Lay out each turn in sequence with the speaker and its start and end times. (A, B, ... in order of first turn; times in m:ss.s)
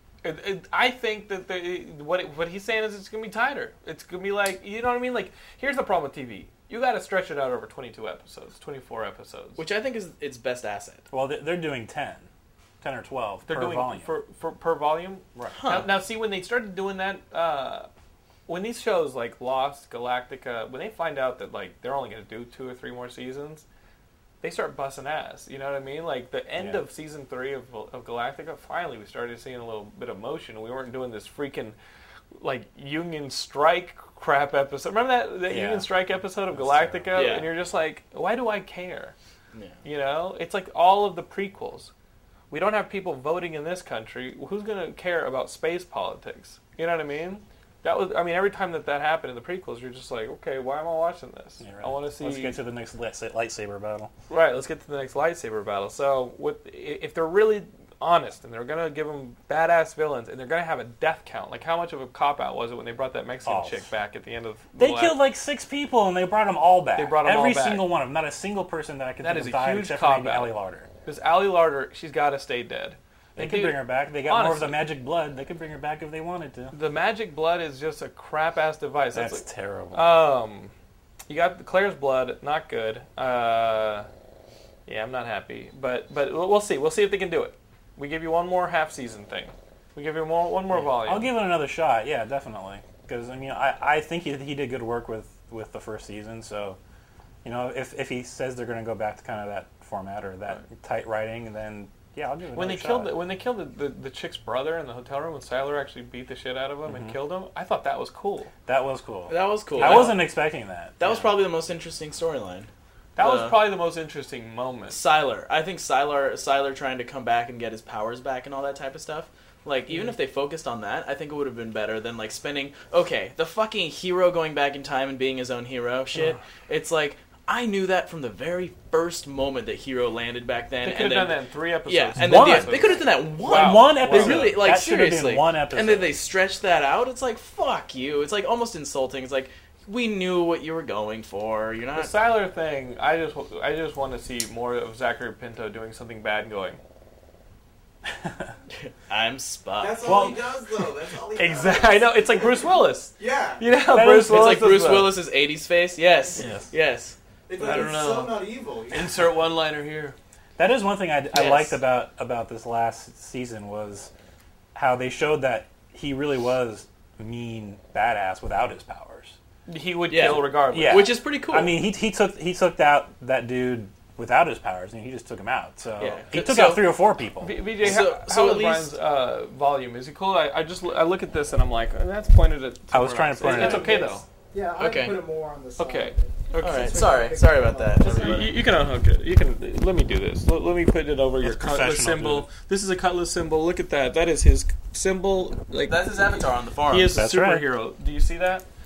0:00.2-0:09.6 A
0:09.6-0:11.0 B
0:11.1-0:12.3 C
0:12.8-0:14.1 C
0:13.4-0:17.9 A
0:15.3-0:15.6 C
0:15.5-0:15.9 B
0:18.5-0:23.6 A
0:24.4-0:31.8 A
0:26.6-0:26.8 C
0:32.4-0:39.1 A
0:35.5-0:37.3 C
0:37.1-0:37.5 B
0:39.5-0:39.8 B
0:39.8-0:41.9 A
0:42.5-0:52.6 A
0:51.6-0:54.1 C
0:54.3-1:05.2 A
1:03.4-1:03.8 C
1:04.8-1:10.9 C
1:07.0-1:07.9 A
1:09.2-1:10.5 A
1:11.0-1:14.8 A
1:13.4-1:16.7 C
1:16.7-1:20.7 A
1:19.1-1:20.3 C
1:21.3-1:24.1 A
1:24.8-1:31.3 A
1:30.7-1:36.8 C
1:37.4-1:43.2 C
1:42.5-1:48.5 A
1:46.8-1:47.2 C
1:48.6-1:51.3 C
1:49.3-1:50.3 B
1:49.8-1:50.2 A
1:51.0-1:53.6 B
1:53.2-1:55.0 A
1:54.9-2:22.1 B
2:10.8-2:14.6 A
2:12.2-2:16.2 C
2:21.9-2:26.8 A
2:28.8-2:30.4 B
2:29.8-2:33.7 D
2:30.0-2:30.4 C
2:31.4-2:35.2 A
2:33.9-2:34.5 C
2:34.2-2:37.2 B
2:36.4-2:36.7 A
2:37.5-2:39.3 D
2:37.6-2:40.2 A
2:40.6-2:44.1 C
2:41.3-2:41.7 A
2:44.7-2:49.4 C
2:49.7-2:51.2 A
2:50.1-2:51.8 B
2:50.7-2:57.9 C
2:56.0-2:56.9 B
2:57.4-3:04.2 A
2:57.8-2:58.9 B
3:02.9-3:04.0 C
3:03.4-3:08.6 E
3:04.8-3:05.2 B
3:05.8-3:07.0 A
3:06.6-3:08.6 B
3:08.0-3:16.2 A
3:11.4-3:12.5 C
3:15.8-3:17.2 B
3:16.9-3:18.6 A
3:17.1-3:17.6 C